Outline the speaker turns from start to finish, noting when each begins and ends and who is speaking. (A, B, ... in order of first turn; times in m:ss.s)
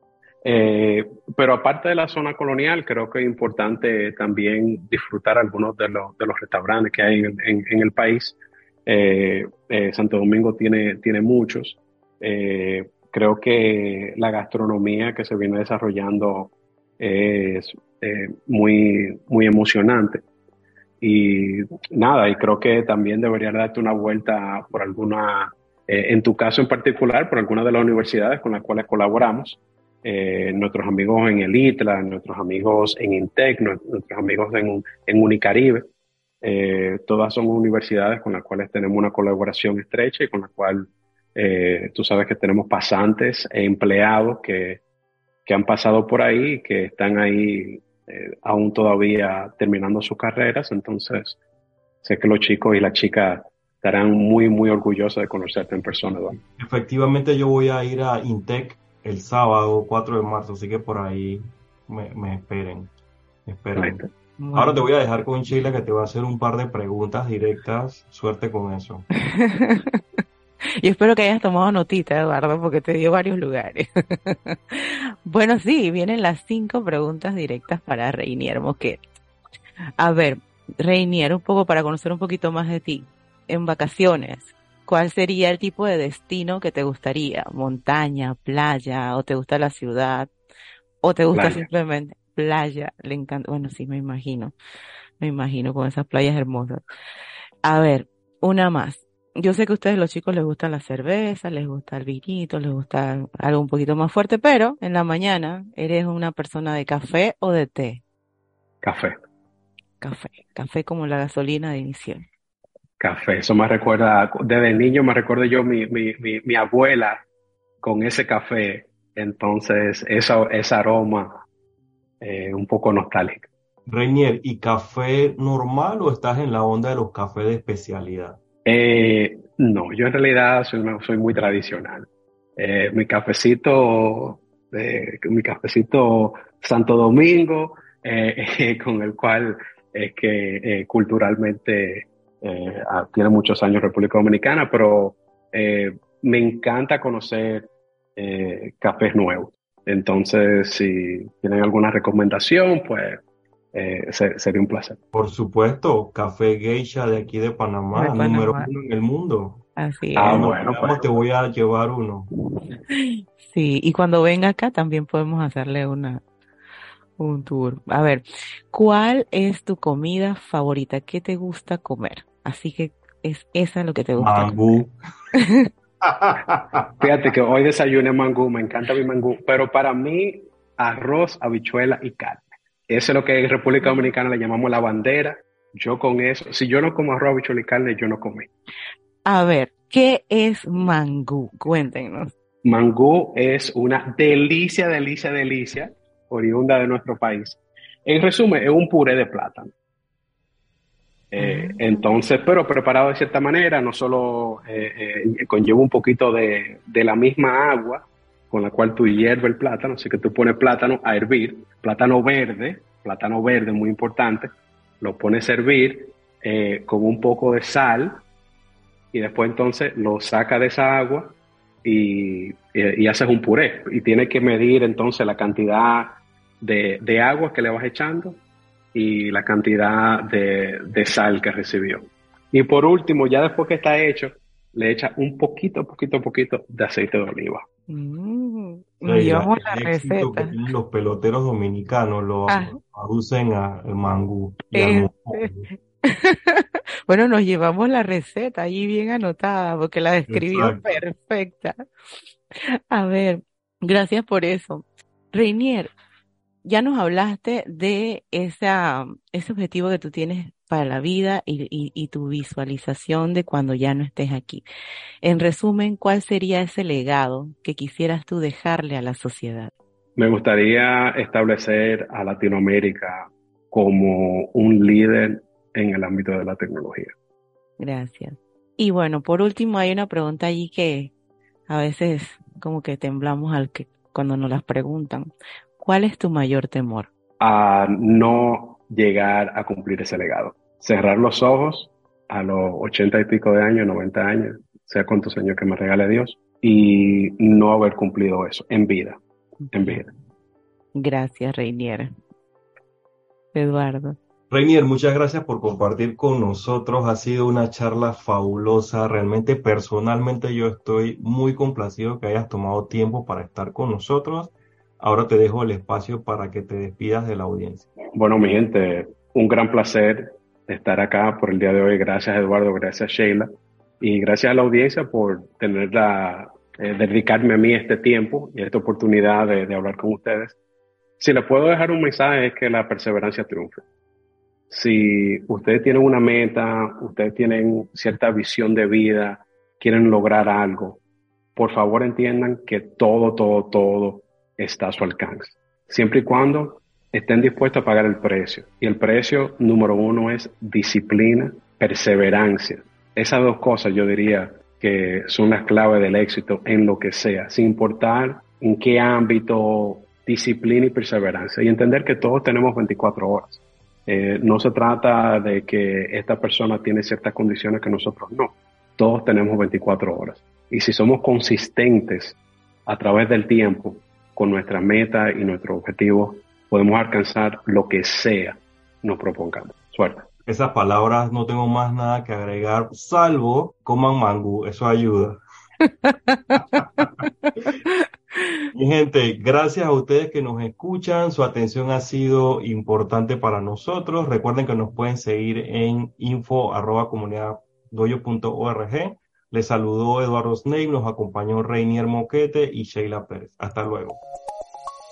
0:00.4-0:20.2 A
0:21.0-0:35.9 A
0:36.4-0:44.8 A
0:45.5-0:51.4 A
0:52.0-0:56.4 A
0:56.6-1:02.9 B
1:03.5-1:04.0 B
1:03.8-1:04.1 A
1:04.4-1:04.9 C
1:04.6-1:09.1 B
1:09.2-1:10.2 C
1:10.8-1:19.0 C
1:20.0-1:30.3 C
1:31.0-1:34.5 C
1:31.3-1:31.7 A
1:35.2-1:36.8 C
1:37.6-1:48.0 C
1:48.8-1:49.2 A
1:50.0-1:52.2 C
1:53.0-1:57.2 A
1:57.8-2:01.4 A
2:02.2-2:03.5 A
2:03.9-2:08.4 B
2:08.6-2:33.2 A
2:33.7-2:35.0 A
2:35.1-2:39.6 B
2:38.0-2:38.7 C
2:39.8-2:40.5 C
2:40.2-2:41.2 A
2:40.3-2:42.3 B
2:42.6-2:46.2 C
2:47.2-2:54.6 C
2:54.2-2:54.9 B
2:55.3-2:55.7 C
2:56.0-2:56.9 B
2:57.0-3:08.5 A
3:03.8-3:04.1 C
3:09.3-3:12.3 C
3:12.6-3:19.7 A
3:21.3-3:34.5 A
3:21.4-3:21.8 C
3:35.0-3:38.2 A
3:39.1-3:48.4 A
3:48.9-3:57.6 A
3:57.9-4:00.5 C
3:59.1-4:05.7 B
4:02.5-4:02.8 C
4:04.7-4:11.8 C
4:10.3-4:10.8 B
4:12.6-4:15.9 C
4:16.6-4:24.6 C
4:25.2-4:29.7 C
4:30.2-4:37.1 A
4:37.8-4:41.1 C
4:41.7-4:47.1 C
4:47.4-4:59.2 A
4:59.7-5:00.1 A
5:01.0-5:02.1 C
5:03.5-5:04.2 C
5:04.5-5:17.9 B
5:18.1-5:23.5 A
5:24.0-5:30.6 A
5:31.2-5:33.8 A
5:34.7-5:41.0 A
5:41.6-6:20.3 A
6:20.5-6:25.4 B
6:26.0-6:27.8 C
6:26.8-6:27.2 B
6:28.7-6:44.2 B